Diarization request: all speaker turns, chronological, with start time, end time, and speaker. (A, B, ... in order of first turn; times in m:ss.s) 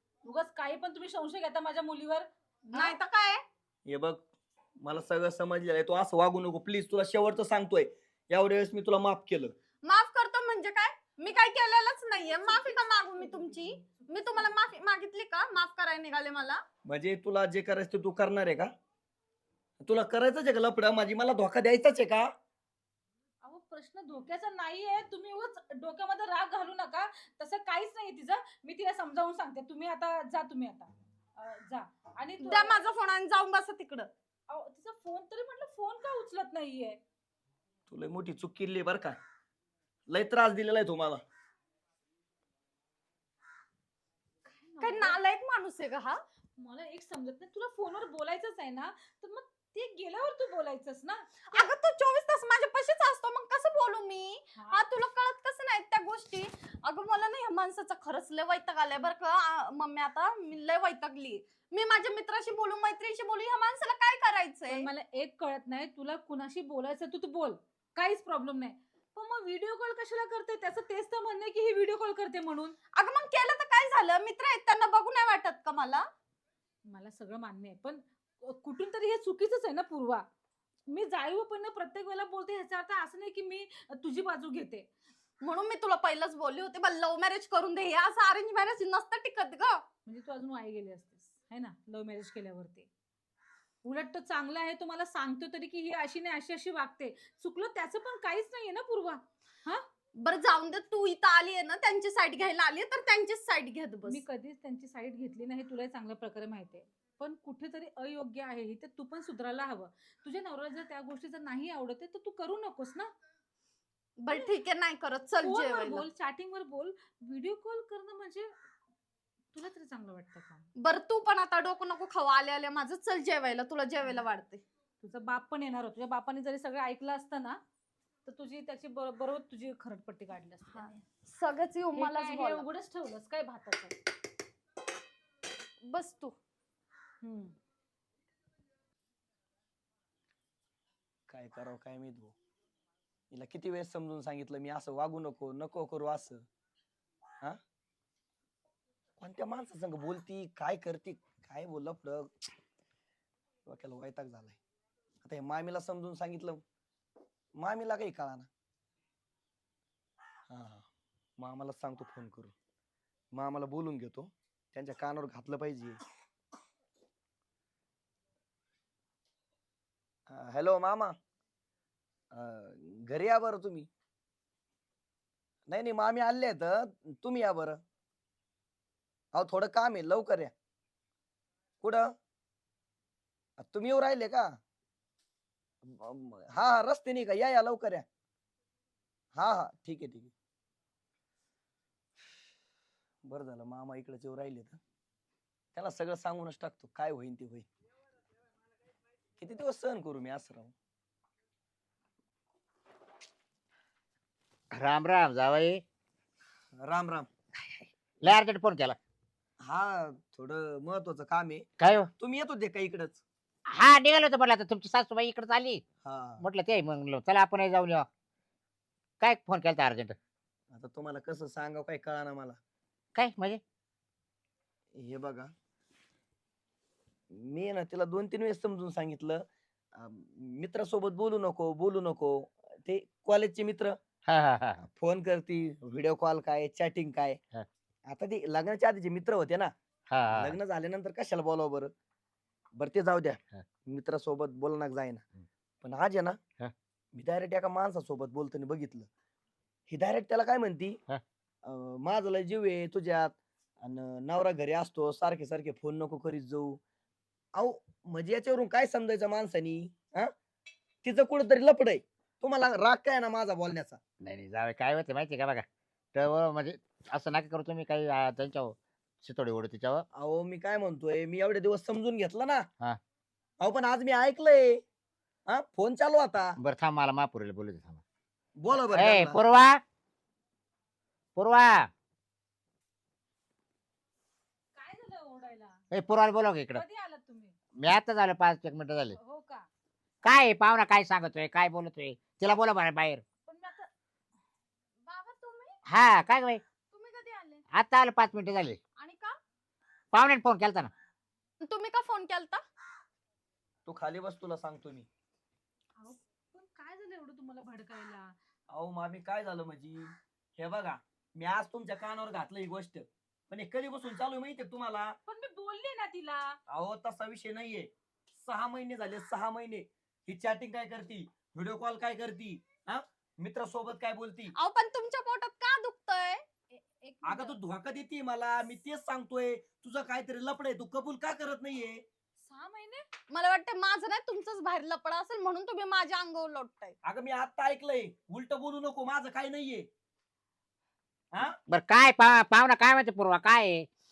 0:00.2-0:03.0 A
0:02.7-0:03.4 B
0:03.9-0:04.2 C
0:04.8-0:09.5 C
0:09.8-0:16.6 B
0:12.2-0:14.7 A
0:16.8-0:18.7 C
0:19.8-0:22.3 C
0:23.4-0:32.8 A
0:32.4-0:34.1 B
0:34.5-0:37.0 A
0:37.9-0:39.2 C
0:40.1-0:41.2 C
0:44.4-0:45.2 A
0:44.8-0:46.2 B
0:46.6-0:51.7 A
0:51.5-1:04.9 B
0:54.6-0:54.8 A
1:04.7-1:12.8 A
1:12.9-1:16.0 B
1:16.9-1:20.2 A
1:20.9-1:24.9 A
1:25.4-1:29.8 B
1:30.1-1:32.9 A
1:33.8-1:39.8 A
1:40.2-1:44.2 B
1:44.1-1:53.1 A
1:54.2-1:56.0 B
1:55.4-1:58.5 A
1:59.5-2:00.7 A
2:00.8-2:04.6 B
2:05.0-2:07.6 A
2:08.2-2:11.0 A
2:10.7-2:12.6 B
2:12.0-2:14.0 A
2:15.9-2:16.4 B
2:17.2-2:17.5 A
2:21.3-2:22.4 C
2:23.3-2:26.4 C
2:29.2-2:32.5 C
2:33.6-2:34.6 C
2:35.2-2:36.6 C
2:37.6-2:38.5 C
2:40.5-2:40.9 C
2:41.4-2:42.5 C
2:43.3-2:46.0 C
2:50.3-2:51.2 C
2:52.3-2:53.9 C
2:55.7-2:57.8 C
2:59.3-3:00.5 C
3:01.8-3:02.1 C
3:03.6-3:04.6 C
3:05.8-3:08.1 C
3:09.4-3:10.3 C
3:13.2-3:14.8 C
3:15.8-3:17.7 C
3:19.4-3:20.7 C
3:24.7-3:25.8 D
3:26.8-3:27.3 C
3:28.2-3:29.0 D
3:29.6-3:31.6 C
3:31.8-3:32.1 D
3:32.2-3:33.2 C
3:33.6-3:35.8 D
3:36.0-3:36.4 C
3:36.4-3:38.1 D
3:39.2-3:40.2 D
3:40.7-3:42.6 C
3:43.1-3:43.6 D
3:45.0-3:45.5 C
3:47.3-3:54.0 C
3:54.2-3:54.8 D
3:54.8-3:57.4 C
3:58.1-3:59.7 C
4:00.1-4:00.6 D
4:00.3-4:01.9 C
4:02.8-4:05.2 C
4:05.8-4:06.4 C
4:07.1-4:09.1 C
4:09.9-4:11.0 C
4:11.6-4:16.8 C
4:17.6-4:20.3 C
4:21.0-4:24.0 C
4:24.2-4:30.0 D
4:30.1-4:32.7 C
4:33.6-4:34.8 C
4:35.5-4:36.5 C
4:36.6-4:38.0 D
4:38.6-4:39.4 C
4:38.9-4:39.8 D
4:41.4-4:41.9 D
4:44.8-4:45.8 A
4:45.9-4:46.8 D
4:46.7-4:47.5 A
4:47.8-4:49.2 D
4:49.1-4:49.7 A
4:50.2-4:53.2 D
4:53.5-4:53.9 A
4:55.1-4:55.8 B
4:55.9-4:56.6 D
4:56.9-4:57.6 B
4:57.7-4:58.8 D
4:59.0-4:59.3 B
5:00.1-5:00.9 D
5:01.6-5:02.6 B
5:03.9-5:05.1 C
5:06.0-5:08.3 A
5:08.7-5:15.2 C
5:15.2-5:16.6 A
5:16.7-5:24.5 C
5:24.5-5:26.4 B
5:26.7-5:27.6 A
5:27.2-5:32.0 C
5:32.4-5:33.0 A
5:33.3-5:37.0 B
5:37.0-5:39.9 C
5:41.7-5:43.9 D